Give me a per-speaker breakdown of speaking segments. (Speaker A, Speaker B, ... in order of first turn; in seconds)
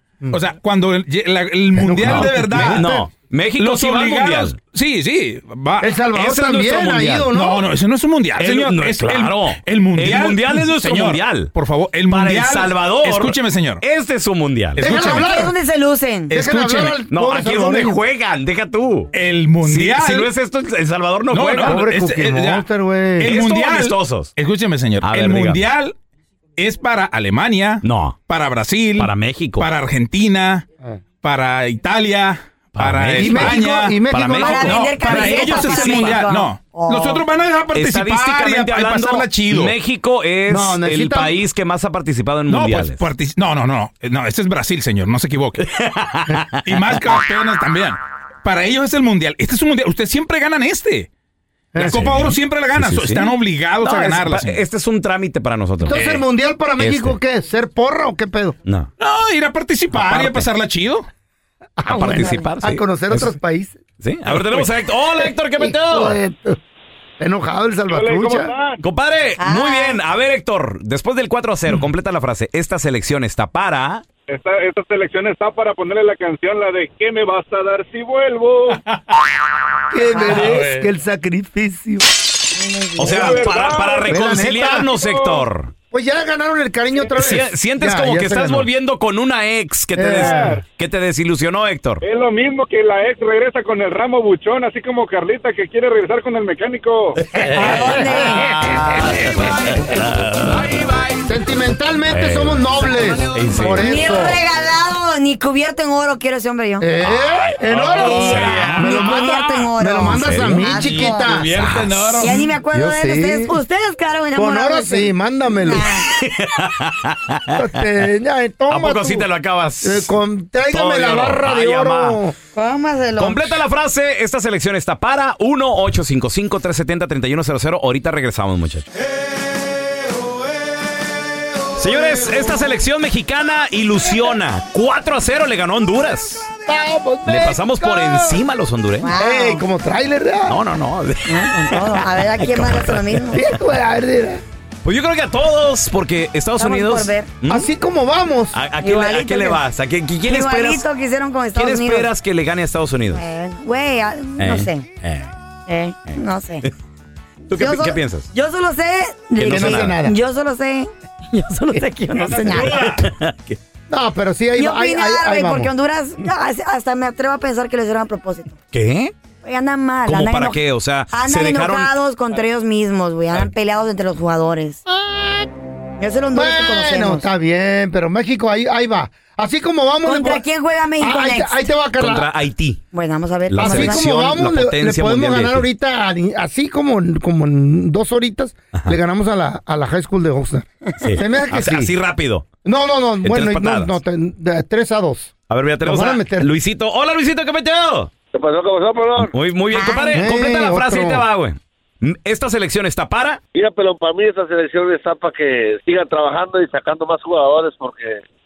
Speaker A: 0.3-3.0, 3.6-6.0, 7.3-13.8, 14.8-15.3, 19.1-20.3, 21.3-22.6, 23.2-25.9, 26.6-30.6, 31.2-39.8, 42.5-45.6, 46.6-51.1, 51.8-54.6, 59.0-61.1, 64.3-64.6, 78.8-79.1, 80.2-80.9, 107.6-109.4, 110.8-112.4, 162.3-163.0
Speaker B: 1.8-3.1, 5.8-7.7, 14.8-15.6, 16.3-18.0, 21.6-23.3, 33.2-34.9, 40.5-41.4, 51.7-52.3, 55.8-58.6, 61.8-63.8, 65.6-66.6, 67.2-68.5, 79.9-82.1, 84.1-84.9, 85.9-88.7, 90.0-90.6, 97.3-99.8, 101.2-104.4, 106.8-111.5, 112.4-113.6, 114.3-115.9, 117.5-119.3, 119.8-122.3, 136.6-138.4, 139.1-140.6, 143.3-144.4, 147.4-148.6, 159.4-160.2, 163.9-165.7, 174.9-175.5, 176.3-180.4, 181.0-182.3, 183.6-191.9, 192.6-195.3, 195.8-196.5, 200.1-201.2
Speaker C: 2.0-4.6, 6.1-7.3, 8.4-11.5, 12.1-14.8, 16.3-19.1, 19.6-21.8, 23.2-24.3, 25.0-25.6, 27.8-28.2, 29.0-29.6, 32.8-36.3, 37.7-43.1, 45.6-46.6, 51.8-56.0, 56.8-57.2, 59.9-60.5, 61.9-63.3, 64.0-66.2, 68.8-74.0, 83.0-85.7, 87.2-92.0, 97.4-97.7, 98.7-100.8, 102.1-102.6, 103.3-104.0, 107.9-109.0, 110.0-110.8, 111.5-112.3, 116.0-117.6, 118.7-120.1, 120.7-122.2, 123.2-128.9, 131.8-136.5, 137.2-139.1, 140.5-143.4, 144.8-147.7, 148.5-150.8, 151.5-153.2, 154.4-155.3, 156.1-156.7, 157.5-158.3, 159.4-160.0, 162.3-163.6, 168.7-169.1, 170.1-171.9, 182.0-182.8, 183.5-185.7, 191.0-192.4, 193.2-193.9, 195.5-198.1, 199.2-203.4
Speaker D: 14.8-16.9, 34.4-37.2, 62.1-62.5, 69.4-70.0, 80.1-80.5, 82.5-83.4, 97.5-98.7, 103.8-106.9, 107.9-111.5, 112.2-116.1, 122.5-123.6, 139.0-139.6, 141.2-143.4, 146.6-147.3, 148.8-149.6, 150.2-152.1, 153.2-154.9, 155.7-156.7, 157.5-163.0, 164.6-168.6, 169.4-170.6, 171.1-174.8, 176.0-177.3, 180.0-181.7, 182.9-184.0, 199.7-200.2
Speaker E: 67.9-68.8, 74.3-78.8, 83.1-84.1, 84.9-85.4, 90.1-90.6, 92.0-97.2, 198.3-199.3, 203.5-208.2